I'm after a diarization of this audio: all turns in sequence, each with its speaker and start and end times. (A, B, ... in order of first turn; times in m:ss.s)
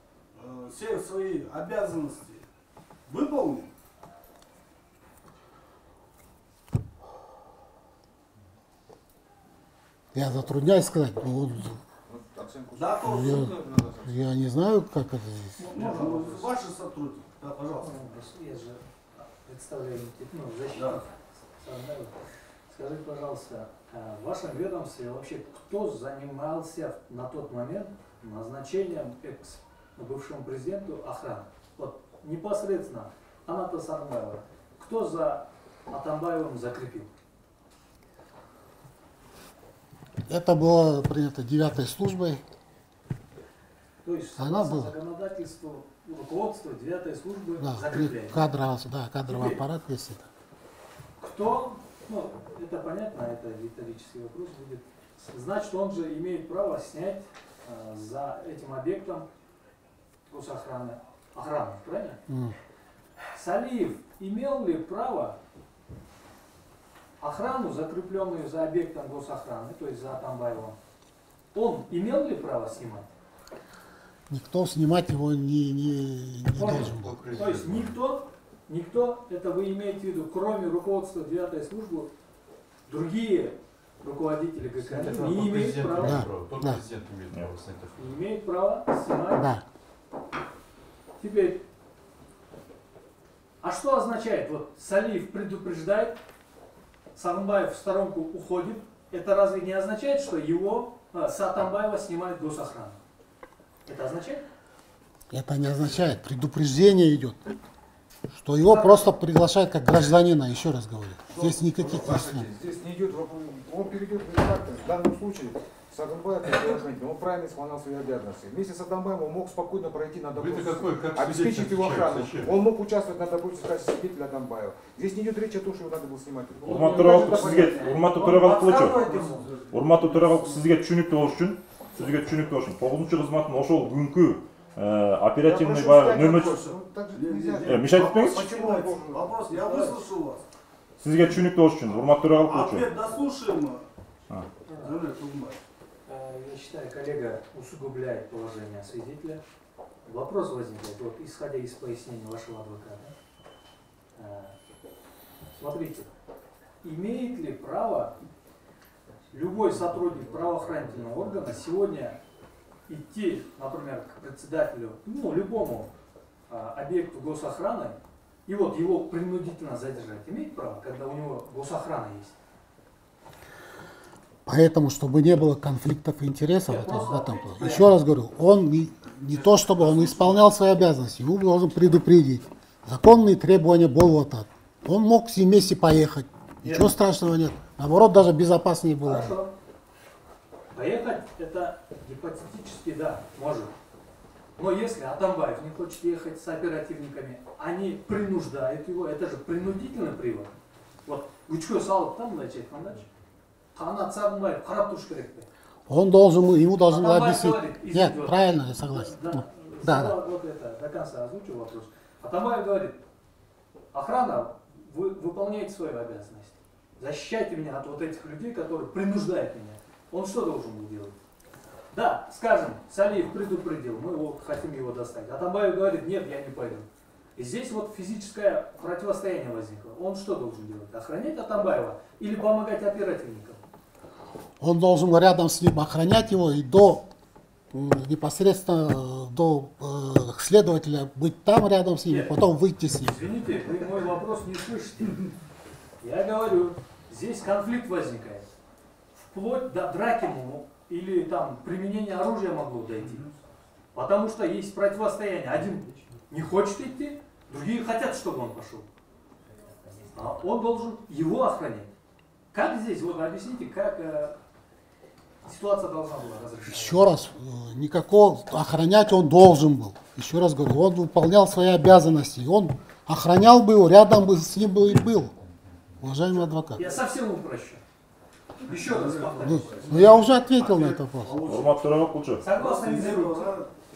0:00.3-0:02.5 A
0:03.1-0:03.7 A
0:10.1-0:11.8 B
0:12.1-0:14.3 C
0:12.7-0:13.6 A
0:13.1-0:15.7 B
0:15.6-0:16.4 D
0:15.7-0:18.1 A
0:17.8-0:22.2 D
0:20.7-0:21.0 A
0:22.7-0:37.1 D
0:40.3-0:42.4 B
0:44.0-0:48.5 D
0:44.4-0:45.0 B
0:47.6-0:50.3 B
0:49.3-0:49.6 D
0:51.2-0:59.3 D
1:00.3-1:02.2 D
1:02.3-1:02.6 B
1:03.3-1:05.4 D
1:07.2-1:10.8 D
1:11.5-1:13.1 D
1:14.3-1:17.3 B
1:16.6-1:17.9 C
1:16.6-1:22.1 D
1:22.9-1:26.3 D
1:24.8-1:28.0 C
1:26.0-1:26.8 B
1:28.0-1:29.5 D
1:29.3-1:29.6 B
1:31.2-1:31.6 D
1:33.6-1:36.2 D
1:37.2-1:43.0 D
1:43.9-1:44.5 D
1:45.3-1:47.4 B
1:48.3-1:52.5 B
1:48.6-1:49.1 D
1:51.3-2:09.7 C
2:01.2-2:02.2 A
2:06.6-2:09.1 E
2:08.2-2:09.5 A
2:09.7-2:16.6 E
2:15.4-2:20.0 C
2:17.1-2:20.5 A
2:17.7-2:18.5 E
2:21.0-2:22.9 E
2:22.1-2:23.8 A
2:24.7-2:25.0 D
2:24.8-2:25.6 A
2:26.1-2:29.4 D
2:30.0-2:33.1 D
2:34.2-2:34.6 D
2:35.6-2:36.1 D
2:36.8-2:38.2 D
2:39.3-2:42.2 D
2:42.9-2:45.9 D
2:46.5-2:52.4 D
2:54.5-3:09.4 B
2:56.7-2:57.9 D
2:59.2-3:00.5 A
3:06.6-3:06.9 D
3:09.0-3:09.5 D
3:10.7-3:13.7 D
3:14.6-3:20.5 D
3:21.1-3:23.1 D
3:23.7-3:25.5 D
3:25.9-3:30.2 B
3:26.9-3:33.0 D
3:33.9-3:41.2 D
3:41.9-3:53.6 D
3:54.6-3:57.1 B
3:57.7-4:03.2 B
4:02.1-4:02.3 D
4:03.0-4:05.3 D
4:06.0-4:08.5 D
4:09.2-4:13.3 D
4:13.9-4:18.9 D
4:20.1-4:21.9 D
4:22.5-4:24.4 D
4:25.4-4:27.1 D
4:26.7-4:35.4 B
4:36.0-4:36.9 B
4:36.8-4:37.8 D
4:38.6-4:40.2 D
4:38.7-4:41.9 A
4:39.4-4:41.4 B
4:41.4-4:42.5 E
4:42.4-4:43.6 D
4:42.5-4:43.7 A